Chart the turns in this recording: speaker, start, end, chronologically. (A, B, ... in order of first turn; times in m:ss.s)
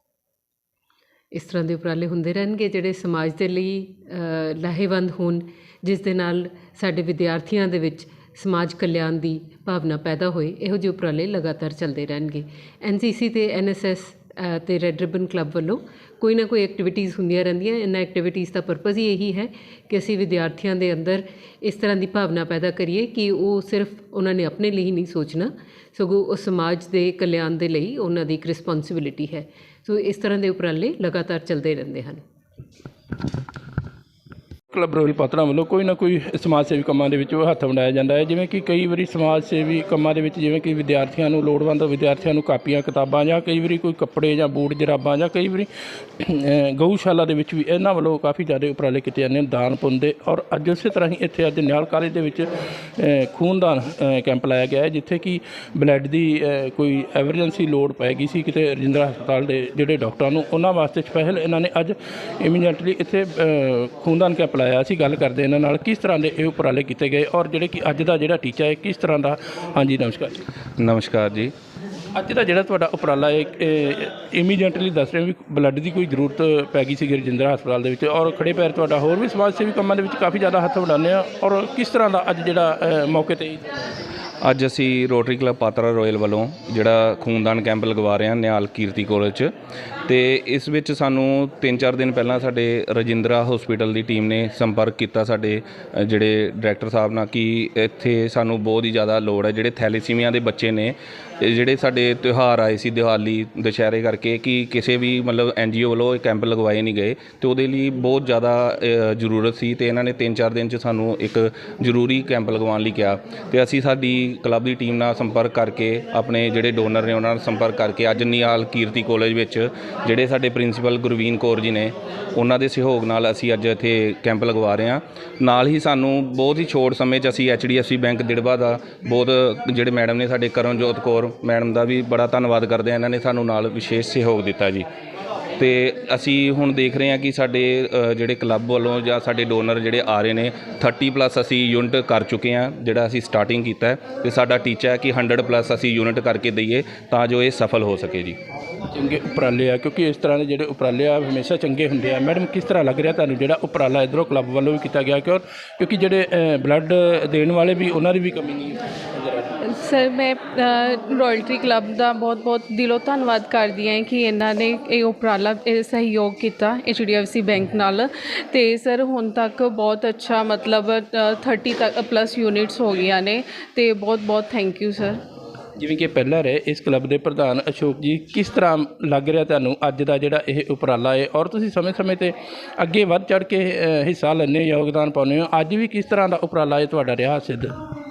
0:01.3-0:32.2 A
0:34.7-0:45.7 B
0:46.2-0:52.5 B
0:53.0-1:10.3 B
1:10.8-1:11.5 C
1:12.2-1:23.7 B
1:24.4-1:29.5 C
1:30.1-2:14.9 C
2:15.6-2:28.4 C
2:28.9-2:39.6 B
2:39.7-2:55.2 D
2:55.8-3:07.7 B